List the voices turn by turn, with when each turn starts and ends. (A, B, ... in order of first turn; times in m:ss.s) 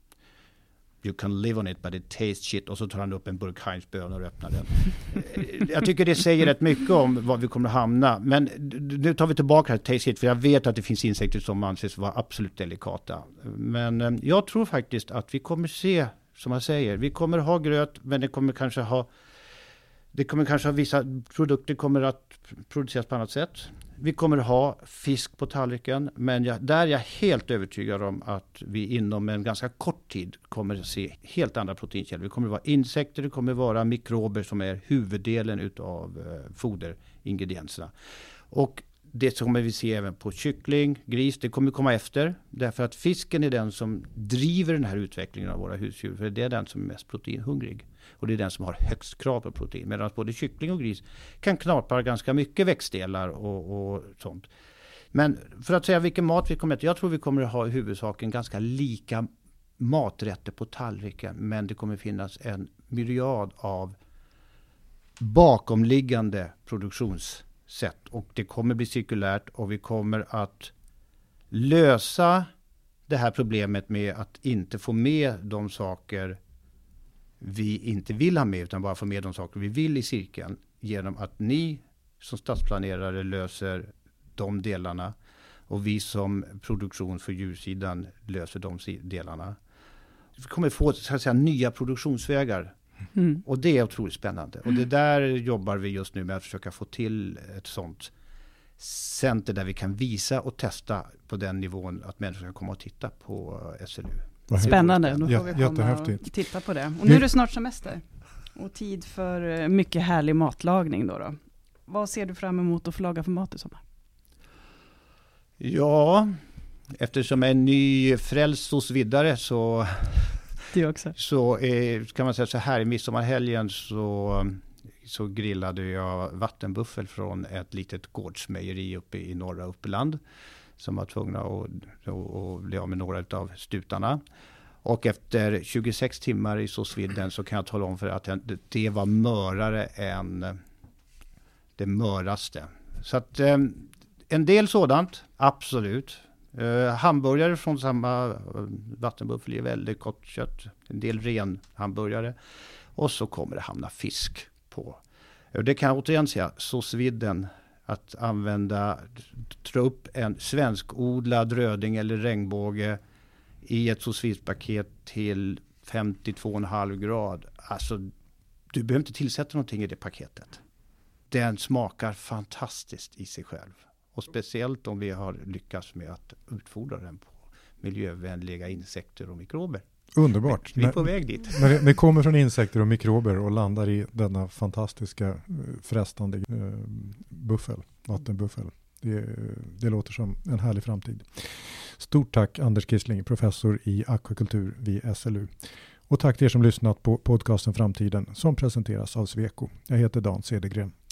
0:01.0-0:19.1 A
0:20.1-0:37.9 A
0:38.5-0:54.5 A
0:55.1-0:59.3 A
0:59.8-1:04.0 A
1:05.2-1:10.7 A
1:11.5-1:12.5 A
1:13.1-1:16.4 A
1:17.4-1:25.1 A
1:25.7-1:29.6 A
1:30.4-1:32.7 A
1:33.1-1:33.4 B
1:33.4-1:38.1 A
1:38.8-1:45.4 A
1:44.5-1:46.2 C
1:44.5-1:53.8 B
1:55.6-1:56.4 A
1:56.9-2:00.5 A
2:00.7-2:01.2 B
2:01.2-2:10.2 A
2:10.8-2:14.2 A
2:14.8-2:20.6 A
2:21.8-2:32.4 A
2:32.9-2:35.0 A
2:35.5-2:43.0 A
2:43.6-2:48.1 A
2:48.7-2:50.6 A
2:51.3-2:59.8 A
3:00.1-3:20.9 C
3:00.4-3:01.8 A